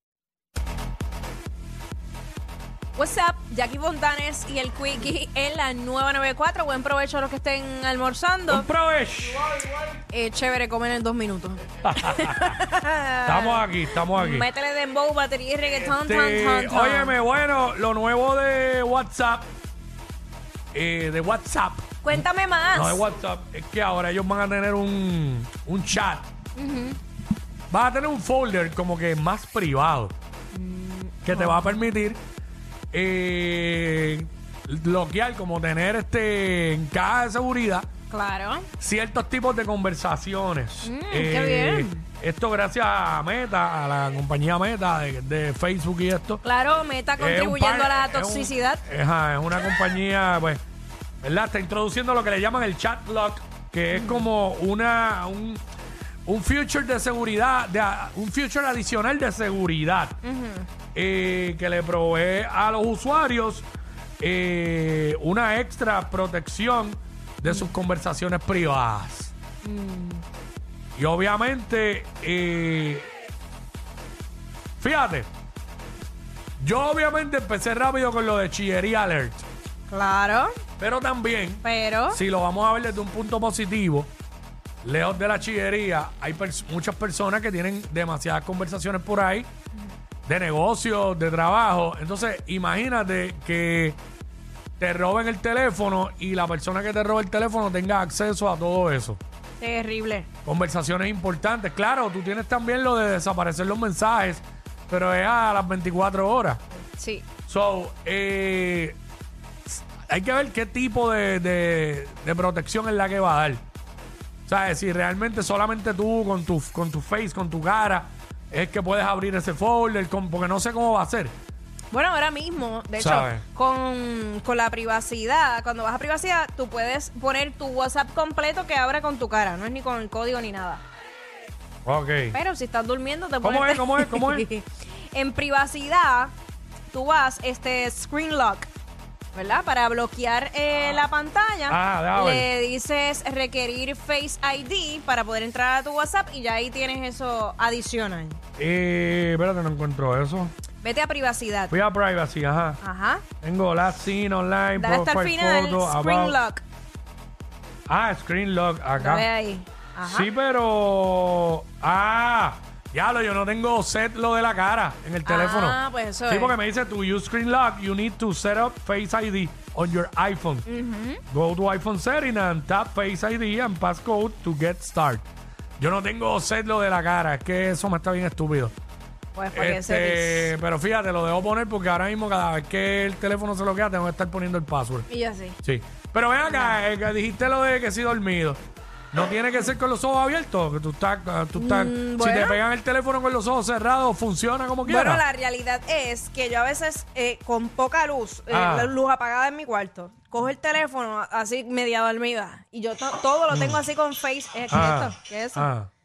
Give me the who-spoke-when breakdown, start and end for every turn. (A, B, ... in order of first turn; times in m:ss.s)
0:03.0-0:08.7 A
0:08.5-0:09.6 B
0:10.1-0:17.2 A
0:11.8-0:12.6 B
0:13.2-0:14.5 B
0:15.8-0:19.5 B
0:20.7-0:22.2 B
0:22.0-0:23.0 A
0:22.7-0:26.3 B
0:26.6-0:27.0 A
0:27.7-0:30.1 B
0:30.5-0:31.8 A
0:31.2-0:32.2 B
0:32.9-0:37.9 B
0:38.1-0:38.7 A
0:38.8-0:46.4 B
0:40.8-0:42.0 A
0:46.4-0:48.8 A
0:47.2-0:50.6 B
0:51.2-0:55.6 B
0:53.9-0:54.2 A
0:56.2-1:00.2 B
1:00.2-1:00.7 A
1:00.9-1:03.6 B
1:04.2-1:09.3 B
1:07.4-1:07.7 A
1:09.6-1:10.2 A
1:11.0-1:13.1 B
1:14.8-1:15.3 B
1:16.6-1:19.4 B
1:19.9-1:20.5 A
1:20.8-1:24.1 B
1:21.6-1:22.2 A
1:24.8-1:29.5 B
1:30.2-1:34.0 B
1:34.8-1:39.2 B
1:39.6-1:40.3 A
1:40.4-1:46.6 B
1:47.0-1:47.2 A
1:47.5-1:49.0 B
1:49.7-1:53.6 B
1:54.4-2:01.3 B
2:01.9-2:10.8 A
2:03.0-2:03.4 B
2:11.8-2:12.4 B
2:12.3-2:16.3 A
2:13.4-2:14.5 B
2:16.9-2:18.7 A
2:19.3-2:28.4 A
2:21.7-2:22.5 B
2:28.6-2:30.5 B
2:30.8-2:31.7 A
2:31.7-2:32.8 B
2:32.8-2:33.2 A
2:33.4-2:36.4 B
2:34.7-2:36.6 A
2:37.9-2:39.2 B
2:39.0-2:40.3 A
2:40.0-2:45.8 B
2:45.2-2:46.5 A
2:46.3-2:50.7 B
2:50.7-2:51.2 A
2:51.3-2:55.3 B
2:55.8-2:58.7 B
2:59.3-3:00.5 A
2:59.5-3:05.1 B
3:05.1-3:05.6 A
3:05.6-3:08.6 B
3:06.4-3:06.8 A
3:09.1-3:15.2 B
3:11.6-3:12.6 A
3:14.8-3:25.7 A
3:18.5-3:18.9 B
3:23.5-3:23.8 B
3:24.7-3:25.9 B